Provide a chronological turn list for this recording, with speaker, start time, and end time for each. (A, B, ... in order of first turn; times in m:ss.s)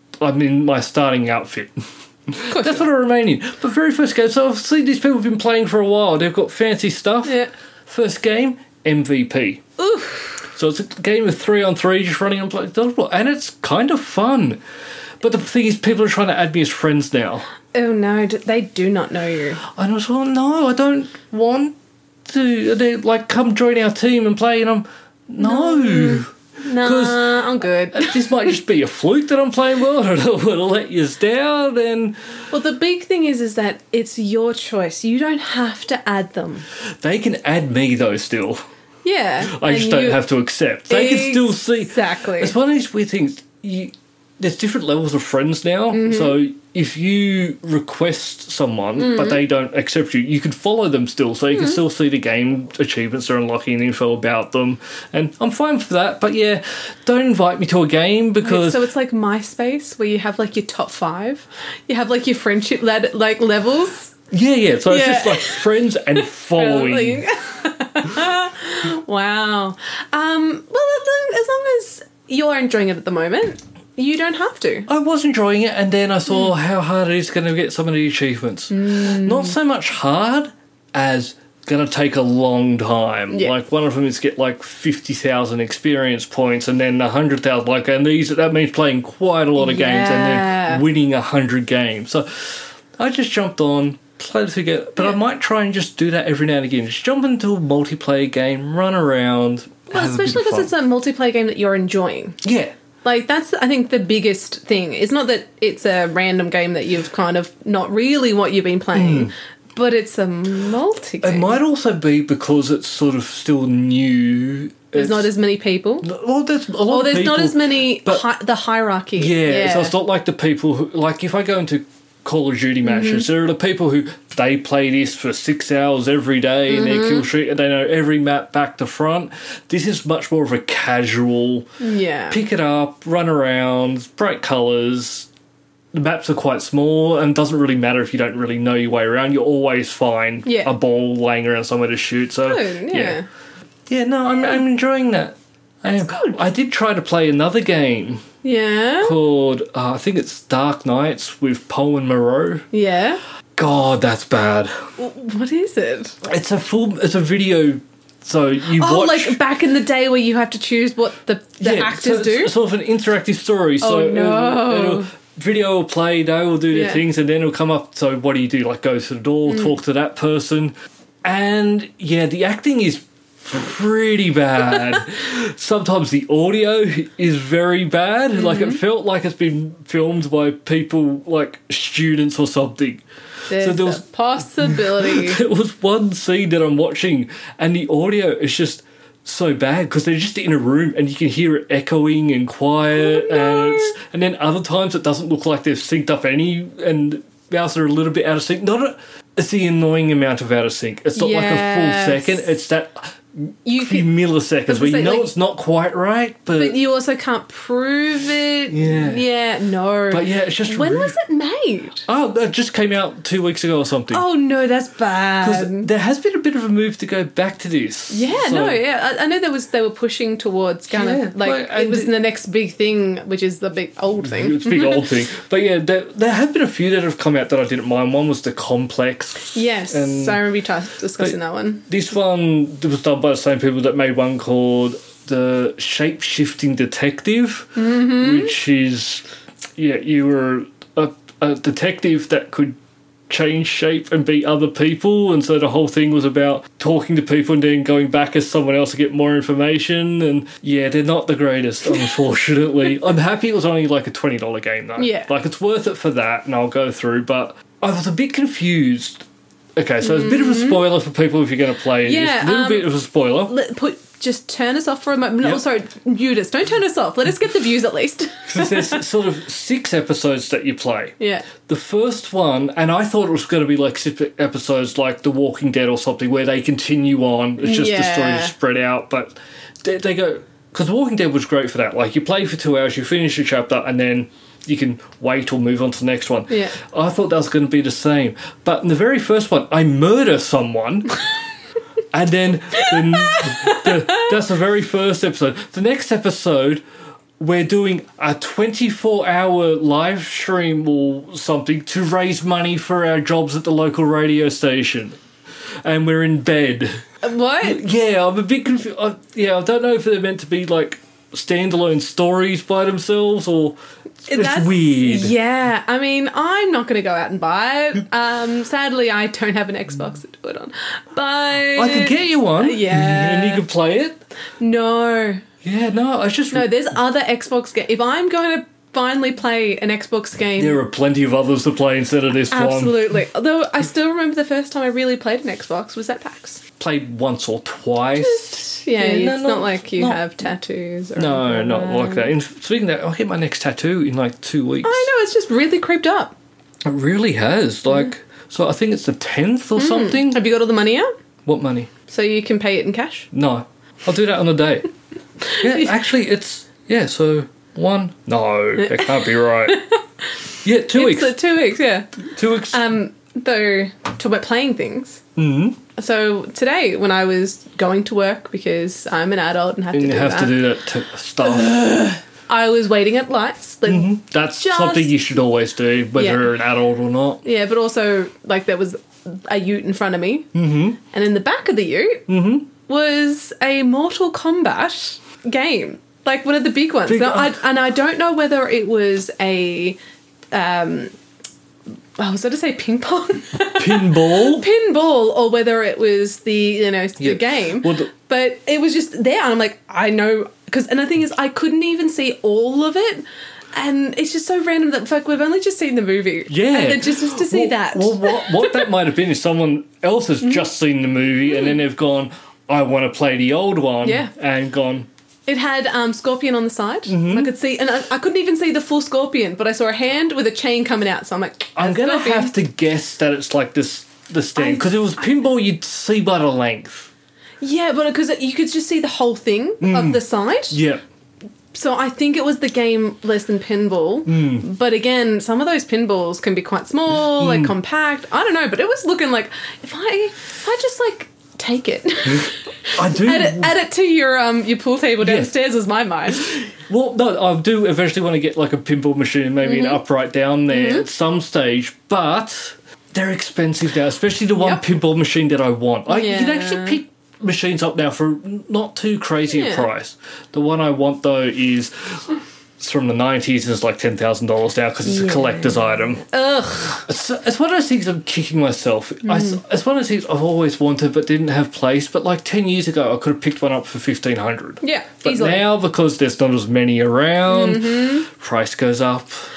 0:00.2-0:01.7 A
0:02.3-0:09.6 A
0:02.5-0:02.8 B
0:07.2-0:07.5 B
0:09.8-0:10.4 B
0:10.5-0:14.6 A
0:15.2-0:17.5 A
0:17.7-0:19.6 B
0:19.6-0:21.7 A
0:22.3-0:26.3 A
0:25.4-0:28.5 B
0:26.8-0:32.2 A
0:32.5-0:36.6 B
0:37.0-0:38.6 A
0:39.0-0:40.2 B
0:39.5-0:58.8 A
0:40.9-0:42.5 B
0:45.9-0:46.4 B
0:49.0-0:49.4 B
0:51.5-0:51.8 B
0:58.4-1:04.2 B
1:04.3-1:07.2 A
1:04.9-1:05.6 B
1:06.5-1:14.9 B
1:14.9-1:40.7 A
1:18.7-1:19.6 B
1:29.6-1:30.8 B
1:39.9-1:42.4 B
1:42.4-1:42.7 A
1:43.0-1:51.6 B
1:48.9-1:49.3 A
1:51.2-1:55.3 A
1:55.0-1:56.1 B
1:56.0-1:58.2 A
1:56.9-1:59.9 B
1:59.2-2:11.7 A
2:02.8-2:03.3 B
2:06.7-2:07.3 B
2:11.8-2:12.4 B
2:12.3-2:15.3 A
2:15.9-2:23.2 A
2:20.4-2:20.7 B
2:22.5-2:23.3 B
2:23.9-2:28.2 A
2:26.1-2:26.4 B
2:28.4-2:29.2 B
2:29.0-2:32.7 A
2:32.7-2:33.2 B
2:33.6-2:34.7 A
2:35.0-2:36.2 B
2:36.2-2:39.4 A
2:38.7-2:42.5 B
2:41.6-2:50.7 A
2:43.8-2:45.1 B
2:46.7-2:47.0 B
2:51.2-3:03.0 A
2:58.4-2:58.8 B
3:03.5-3:05.4 B
3:03.6-3:04.0 A
3:04.6-3:26.8 A
3:12.9-3:14.0 B
3:21.2-3:22.5 B
3:23.7-3:24.1 B
3:24.7-3:25.3 B
3:26.6-3:32.1 B
3:28.7-3:29.2 A
3:30.1-3:31.2 A
3:32.1-3:34.2 A
3:34.1-3:35.9 B
3:35.4-3:38.8 A
3:38.1-3:45.1 B
3:40.9-3:42.1 A
3:44.2-3:50.4 A
3:49.5-3:51.8 B
3:51.9-3:59.2 A
3:57.8-3:58.5 B
3:59.8-4:02.8 A
4:03.3-4:19.2 A
4:15.0-4:15.3 B
4:19.8-4:23.5 A
4:20.0-4:20.8 B
4:22.0-4:22.9 B
4:23.5-4:29.0 B
4:28.5-4:51.2 A
4:31.2-4:31.5 B
4:37.6-4:38.5 B
4:52.1-4:56.8 A
4:52.8-4:54.3 B
4:57.4-5:05.2 A
5:05.8-5:07.0 A
5:07.2-5:07.8 B
5:07.6-5:13.8 A
5:14.3-5:15.4 A
5:14.3-5:23.6 B
5:21.8-5:24.2 A
5:24.6-5:25.4 B
5:25.6-5:26.7 A
5:26.5-5:30.8 B
5:30.6-5:33.0 A
5:32.5-5:36.6 B
5:36.8-5:40.2 A
5:38.2-5:42.3 B
5:41.2-5:45.1 A
5:44.8-5:46.3 B
5:46.8-5:50.4 A
5:49.8-5:51.1 B
5:51.4-5:51.9 A
5:52.1-5:53.3 B
5:53.3-5:54.9 A
5:55.5-5:55.9 B
5:55.6-5:59.8 A
5:58.8-6:00.0 B
6:00.6-6:01.4 A
6:00.9-6:02.2 B
6:02.3-6:02.8 A
6:02.7-6:05.2 B
6:05.4-6:05.8 A
6:06.0-6:10.6 B
6:09.9-6:11.9 A
6:11.4-6:15.1 B
6:13.9-6:17.4 A
6:16.2-6:16.5 B
6:17.4-6:20.5 B
6:20.5-6:21.0 A
6:21.0-6:22.2 B
6:22.3-6:22.7 A
6:22.9-6:30.0 B
6:27.1-6:27.6 A
6:30.5-6:31.1 B
6:32.2-6:48.9 B
6:33.8-6:34.7 A
6:37.2-6:38.1 A
6:46.5-6:55.1 A
6:54.0-6:54.3 B
6:55.5-7:02.5 B
6:57.1-6:57.5 A
7:01.8-7:07.1 A
7:04.6-7:05.3 B
7:07.6-7:10.8 B
7:09.8-7:11.0 A
7:11.7-7:26.5 B
7:14.3-7:14.7 A
7:17.4-7:17.7 A
7:22.9-7:23.7 A
7:25.2-7:25.5 A
7:26.3-7:42.3 A
7:29.6-7:30.0 B
7:30.7-7:31.1 B
7:34.6-7:34.8 B
7:36.1-7:37.0 B
7:39.5-7:39.9 B
7:42.8-7:46.3 A
7:45.1-7:47.0 B
7:47.0-7:59.5 A
7:49.2-7:49.6 B
7:54.8-7:55.6 B
7:57.5-7:58.3 B